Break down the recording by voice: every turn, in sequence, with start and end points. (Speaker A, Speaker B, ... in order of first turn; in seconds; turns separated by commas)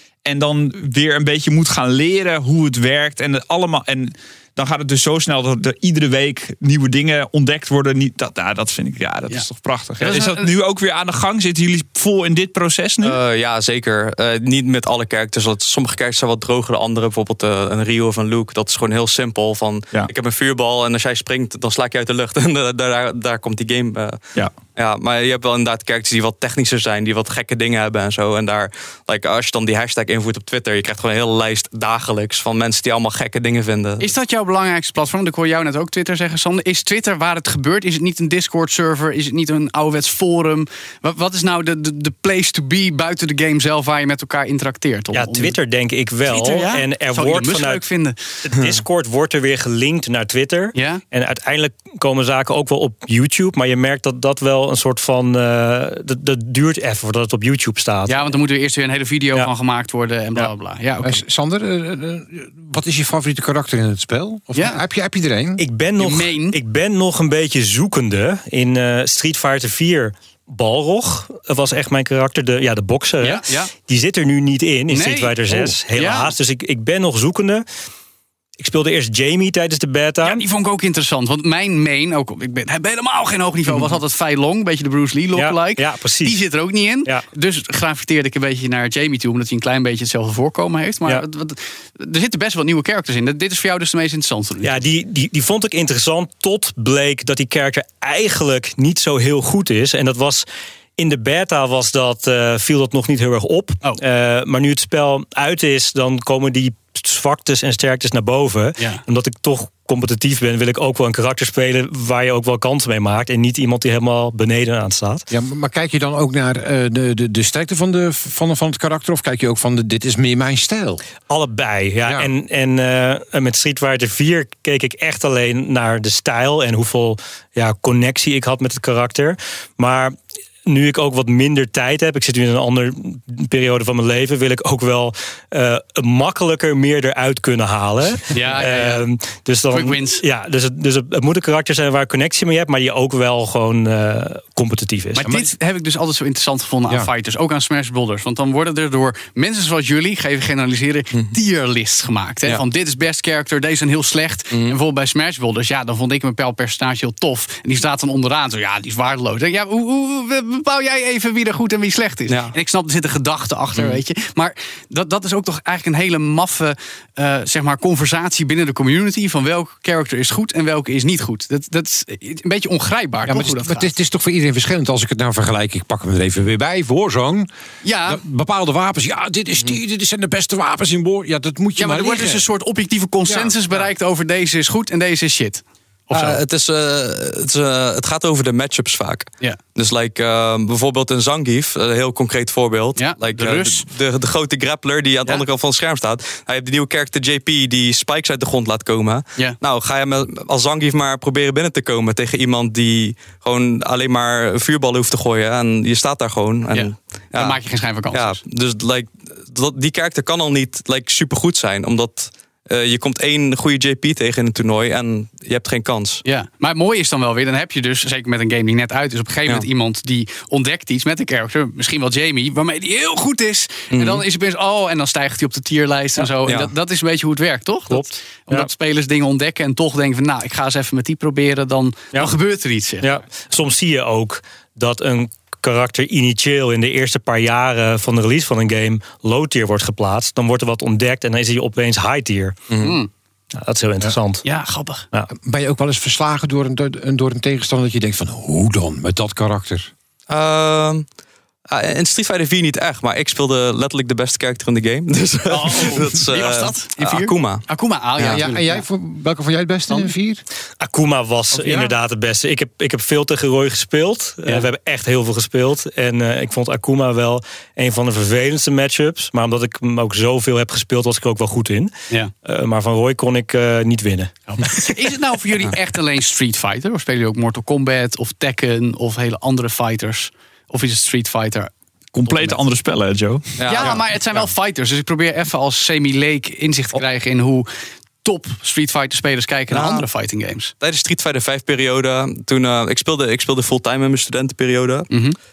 Speaker A: 0.2-13.2, Speaker B: 10.0-10.5, Speaker C: 13.0-24.2, Speaker C: 24.7-34.1, Speaker B: 34.0-45.5, Speaker D: 45.1-47.8, Speaker B: 46.3-48.2, Speaker D: 48.4-58.3, Speaker B: 50.7-51.0, Speaker B: 58.1-61.2, Speaker E: 61.0-65.6, Speaker B: 64.5-64.8, Speaker D: 65.6-77.7, Speaker B: 66.0-66.6, Speaker B: 73.2-73.7, Speaker B: 74.9-76.3, Speaker D: 78.6-80.4, Speaker B: 80.2-94.8, Speaker D: 83.7-83.9, Speaker D: 85.3-86.4, Speaker D: 94.6-115.3, Speaker E: 115.3-121.0, Speaker D: 121.3-145.3, Speaker B: 138.3-139.0, Speaker B: 139.7-140.2, Speaker B: 145.1-173.9, Speaker E: 145.2-145.5, Speaker C: 162.3-162.5, Speaker C: 163.7-164.0, Speaker E: 173.3-177.5, Speaker B: 177.8-178.2, Speaker E: 178.1-182.4, Speaker B: 181.8-186.4, Speaker E: 183.3-183.6, Speaker C: 186.1-207.6, Speaker B: 193.0-193.8, Speaker B: 206.7-208.4, Speaker C: 208.1-216.2, Speaker B: 216.2-233.2, Speaker C: 223.9-224.2, Speaker D: 227.9-228.7, Speaker D: 233.0-242.6, Speaker B: 242.8-243.1, Speaker D: 243.6-244.4, Speaker B: 244.4-245.1, Speaker E: 245.3-249.9, Speaker C: 250.3-251.1, Speaker C: 251.7-257.6, Speaker B: 255.5-258.9, Speaker E: 258.3-260.4, Speaker D: 260.8-271.9, Speaker E: 261.5-261.9, Speaker D: 272.4-275.0, Speaker B: 274.5-281.7, Speaker A: 282.1-283.9, Speaker B: 282.2-282.6, Speaker C: 283.6-284.0, Speaker B: 283.6-287.7, Speaker B: 288.2-290.7, Speaker C: 289.7-290.0, Speaker C: 290.8-295.1, Speaker B: 295.1-295.4